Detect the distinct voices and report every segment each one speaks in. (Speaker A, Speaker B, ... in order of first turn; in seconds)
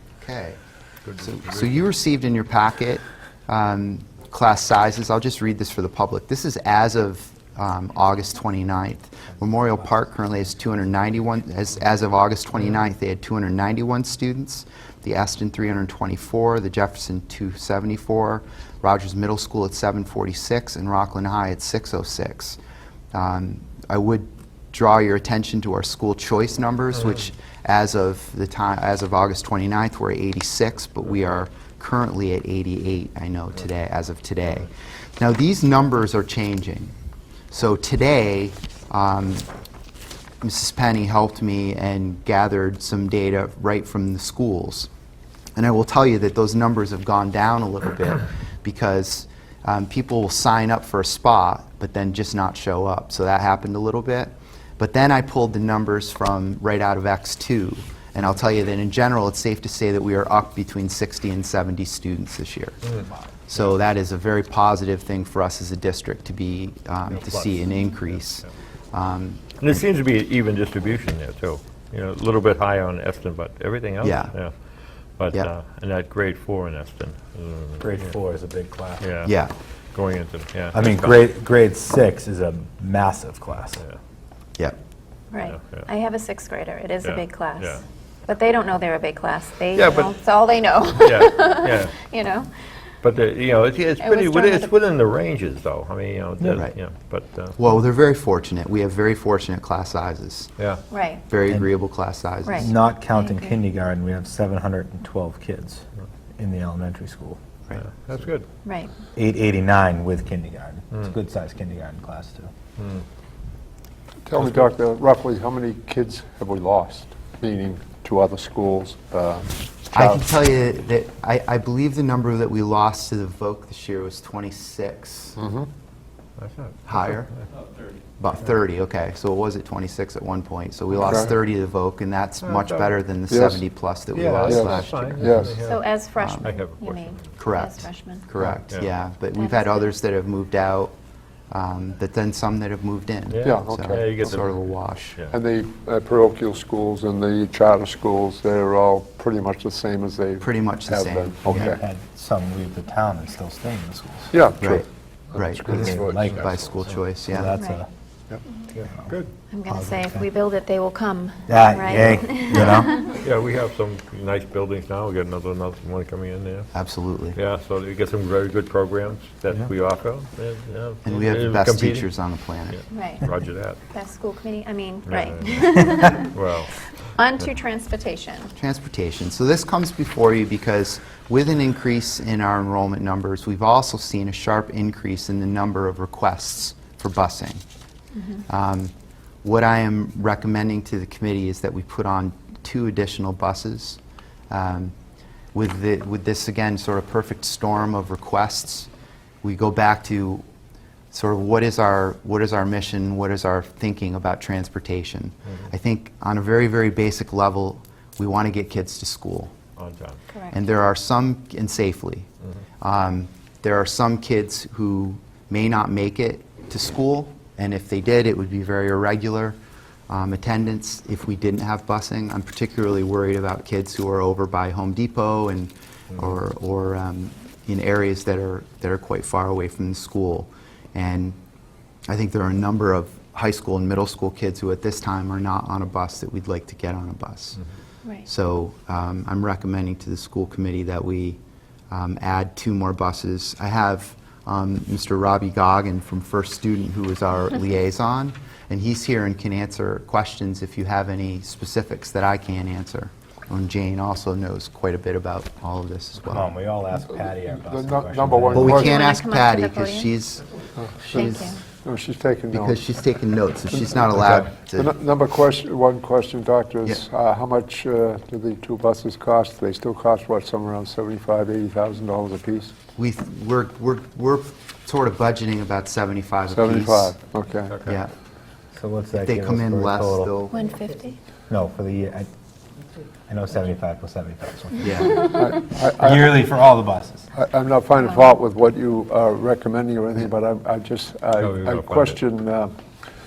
Speaker A: 0.2-0.6, 1.2-22.6, 23.1-36.9, 37.5-39.5, 40.4-44.9, 45.6-62.8, 63.5-69.5, 74.0-74.3, 79.2-79.5, 97.6-100.5, 101.3-102.7, 119.9-125.4, 126.8-127.3, 128.2-135.3, 136.2-136.5, 137.4-140.9, 141.5-145.2, 150.4-151.8, 154.6-157.5, 166.7-167.4, 171.0-172.8, 178.5-187.6, 188.5-188.9, 189.4-194.0, 194.5-194.9, 195.5-198.9, 199.4-200.4, 201.1-209.5, 210.5-212.3, 212.8-219.6, 220.1-231.4, 232.1-237.6, 238.2-241.4, 241.9-256.5, 258.5-260.5, 261.1-261.5, 262.5-264.9, 272.9-277.1, 277.8-278.1, 279.1-280.6, 284.8-285.2
Speaker B: 1.0-1.9, 62.8-63.8, 67.0-68.5, 69.6-74.5, 75.2-78.1, 79.0-79.3, 79.9-81.2, 85.5-85.9, 87.0-87.8, 89.7-90.1, 90.9-91.9, 93.0-97.6, 107.8-108.5, 112.8-113.0, 126.4-127.2, 132.4-133.0, 134.1-137.3, 143.3-145.3, 158.8-159.3, 162.5-166.7, 167.3-173.8, 175.1-176.9, 209.8-210.2, 291.4-292.2
Speaker C: 77.8-79.1, 80.7-83.8, 102.6-105.8, 106.4-107.4, 109.2-112.5, 151.4-154.3, 155.6-156.5, 157.2-157.9, 158.8-159.2, 159.7-160.3, 161.5-163.0, 256.2-258.9, 278.7-280.3, 281.5-282.3, 283.3-287.2
Speaker D: 85.3-92.5, 94.0-94.7, 100.9-101.2, 102.5-103.6, 108.6-108.9, 135.6-138.3, 139.3-139.9, 157.6-157.8, 159.5-163.1, 172.9-173.2, 173.9-176.3, 177.0-178.5, 188.1-188.4, 210.3-210.6, 258.7-260.1, 261.1-261.6, 280.5-281.2
Speaker E: 114.2-120.2, 125.4-125.7, 131.1-131.3, 133.3-133.6, 134.4-135.6, 143.4-144.4, 145.3-151.8, 154.3-156.8, 257.5-259.0, 260.8-262.8, 263.7-272.8, 276.5-277.9, 285.2-286.3, 287.3-292.7